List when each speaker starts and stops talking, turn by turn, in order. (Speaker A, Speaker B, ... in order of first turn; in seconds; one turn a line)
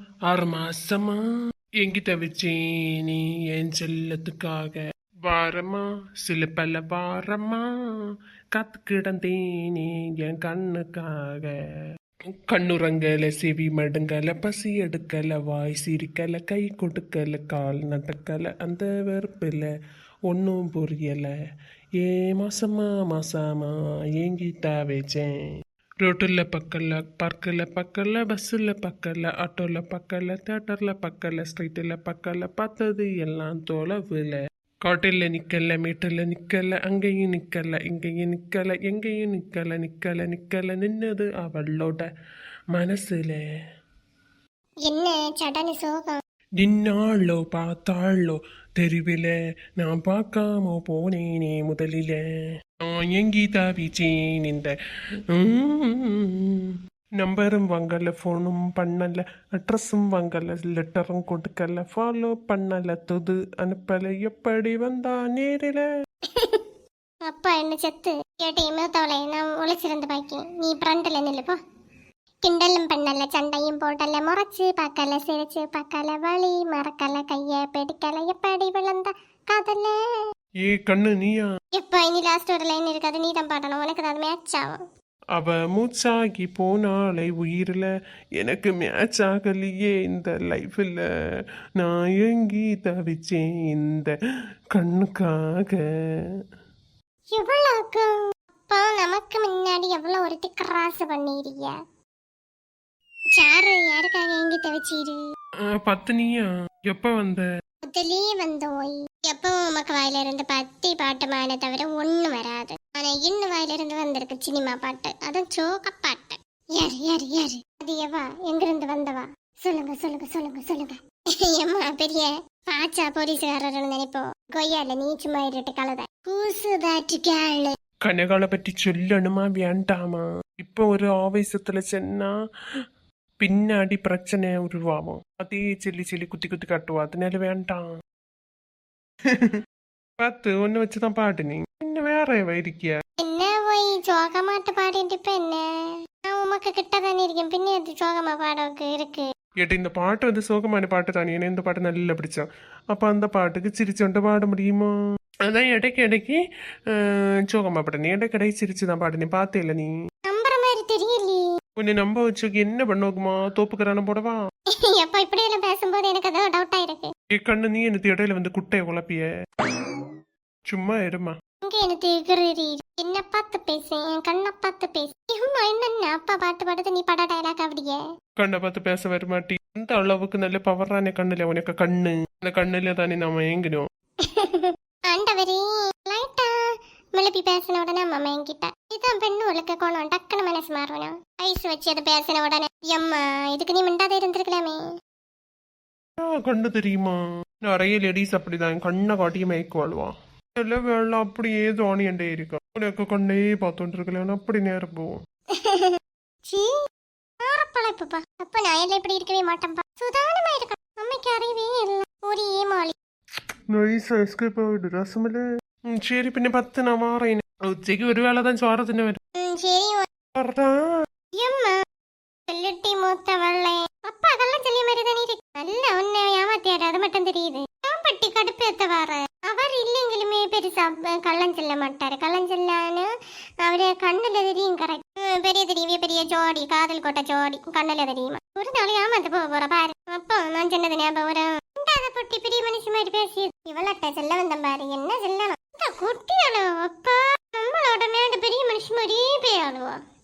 Speaker A: 0.3-1.2
Speaker A: 1.8-7.7
Speaker A: 8.5-11.6
Speaker A: 12.5-19.7
Speaker A: 20.3-21.3
Speaker A: 22.0-25.3
Speaker A: 26.0-42.1
Speaker A: 42.7-43.4
Speaker B: 44.9-46.2
Speaker A: 46.6-52.2
Speaker A: 52.9-54.7
Speaker A: 55.3-65.8
Speaker B: 66.3-66.7
Speaker B: 67.3-71.6
Speaker B: 72.5-80.0
Speaker A: 80.7-81.5
Speaker B: 81.8-84.8
Speaker A: 85.4-87.9
Speaker A: 88.4-91.0
Speaker A: 91.8-94.2
Speaker A: 94.8-95.8
Speaker B: 97.3-98.1
Speaker B: 98.7-101.7
Speaker B: 103.4-105.2
Speaker A: 105.8-107.5
Speaker B: 107.8-127.7
Speaker A: 128.1-132.3
Speaker A: 133.4-137.8
Speaker A: 140.2-142.9
Speaker B: 143.2-145.6
Speaker B: 146.2-149.3
Speaker A: 149.6-154.9
Speaker A: 155.5-156.4
Speaker A: 157.5-159.9
Speaker B: 160.3-161.4
Speaker A: 161.8-164.4
Speaker B: 164.8-167.1
Speaker A: 167.4-169.3
Speaker A: 170.7-171.3
Speaker B: 171.7-178.0
Speaker A: 178.4-183.8
Speaker B: 184.2-186.5
Speaker B: 187.2-194.8
Speaker A: 196.3-197.2
Speaker A: 197.7-205.2
Speaker B: 205.6-206.7
Speaker B: 207.4-212.9
Speaker A: 213.7-215.4
Speaker A: 216.0-219.2
Speaker B: 219.4-220.1
Speaker A: 220.4-220.7
Speaker B: 221.4-221.8
Speaker B: 222.5-233.1
Speaker B: 233.6-250.0